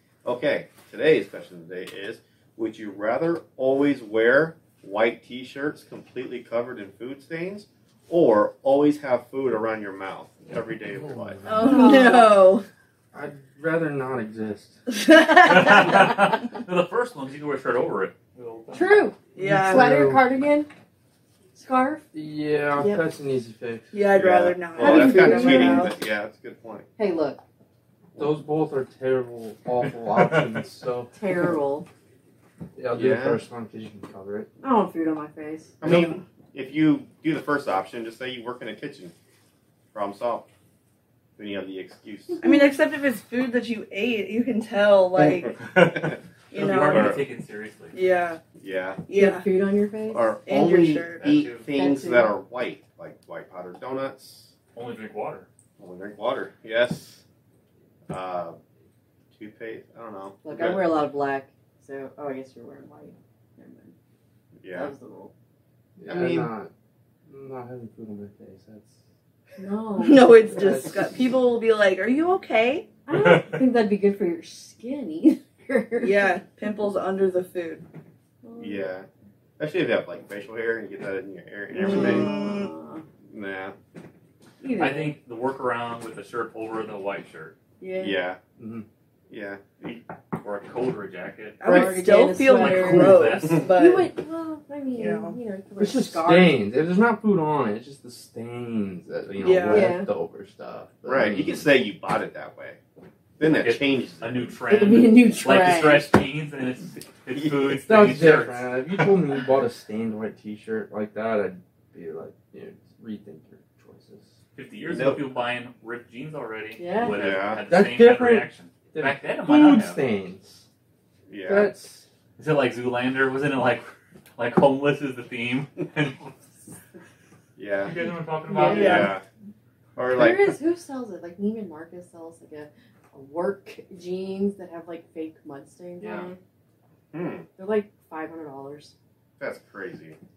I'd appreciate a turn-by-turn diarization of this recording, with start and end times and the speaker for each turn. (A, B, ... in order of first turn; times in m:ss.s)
0:00.2-0:11.5 A
0:11.5-0:12.6 B
0:11.5-0:12.4 C
0:13.1-0:14.8 D
0:14.9-0:16.0 B
0:15.4-0:19.0 E
0:18.7-0:20.7 C
0:19.3-0:19.9 B
0:19.4-0:20.3 D
0:21.5-0:22.0 C
0:22.1-0:24.0 D
0:23.9-0:25.6 B
0:24.1-0:26.9 A
0:24.7-0:26.0 C
0:27.0-0:27.4 C
0:28.2-0:31.1 D
0:29.8-0:30.6 E
0:31.1-0:31.9 C
0:32.8-0:34.5 D
0:32.9-0:33.4 A
0:34.6-0:36.1 C
0:35.8-0:39.1 A
0:35.8-0:36.2 D
0:39.9-0:40.5 A
0:41.4-0:42.4 A
0:42.4-0:45.5 B
0:45.2-0:46.2 A
0:45.6-0:48.0 E
0:46.5-0:47.2 B
0:46.8-0:47.2 A
0:47.9-0:48.4 B
0:48.6-0:49.0 A
0:49.0-0:49.5 B
0:49.1-0:50.4 C
0:50.1-0:54.5 A
0:50.4-0:51.2 B
0:51.2-0:51.7 E
0:51.7-0:52.4 C
0:54.7-0:55.5 E
0:55.8-0:57.2 A
0:58.1-0:58.6 A
0:59.3-1:01.0 A
1:00.4-1:03.9 C
1:04.6-1:04.9 A
1:04.7-1:05.3 C
1:06.0-1:06.7 D
1:06.1-1:06.5 A
1:07.2-1:09.0 D
1:09.6-1:10.4 C
1:10.0-1:12.9 B
1:10.5-1:11.0 D
1:13.0-1:16.4 C
1:13.1-1:13.6 E
1:16.0-1:17.8 B
1:18.4-1:18.9 C
1:18.6-1:19.1 A
1:19.6-1:22.3 A
1:21.7-1:23.0 C
1:22.0-1:22.7 B
1:23.3-1:23.7 A
1:24.6-1:25.2 C
1:24.8-1:27.6 E
1:27.8-1:28.2 C
1:28.0-1:28.4 A
1:28.6-1:28.8 D
1:29.3-1:30.0 A
1:30.4-1:31.8 E
1:31.6-1:34.1 B
1:31.6-1:36.6 C
1:32.5-1:33.7 E
1:34.9-1:35.4 B
1:35.8-1:41.7 D
1:39.4-1:39.9 B
1:39.6-1:40.1 C
1:41.0-1:42.8 A
1:43.4-1:44.6 A
1:43.4-1:48.7 E
1:44.6-1:46.1 C
1:45.5-1:46.0 B
1:47.3-1:47.8 A
1:47.8-1:54.3 D
1:54.5-2:00.0 E
1:54.8-1:55.3 A
1:56.8-1:57.2 C
1:57.1-1:57.6 A
1:57.7-2:00.6 D
2:01.3-2:01.7 A
2:01.4-2:02.1 D
2:02.4-2:06.3 E
2:07.6-2:07.9 A
2:07.8-2:09.2 E
2:08.4-2:09.1 C
2:08.6-2:09.2 A
2:08.7-2:09.1 B
2:10.0-2:10.6 A
2:10.1-2:16.4 C
2:16.0-2:16.3 E
2:17.1-2:17.5 A
2:17.5-2:18.9 C
2:19.4-2:20.2 A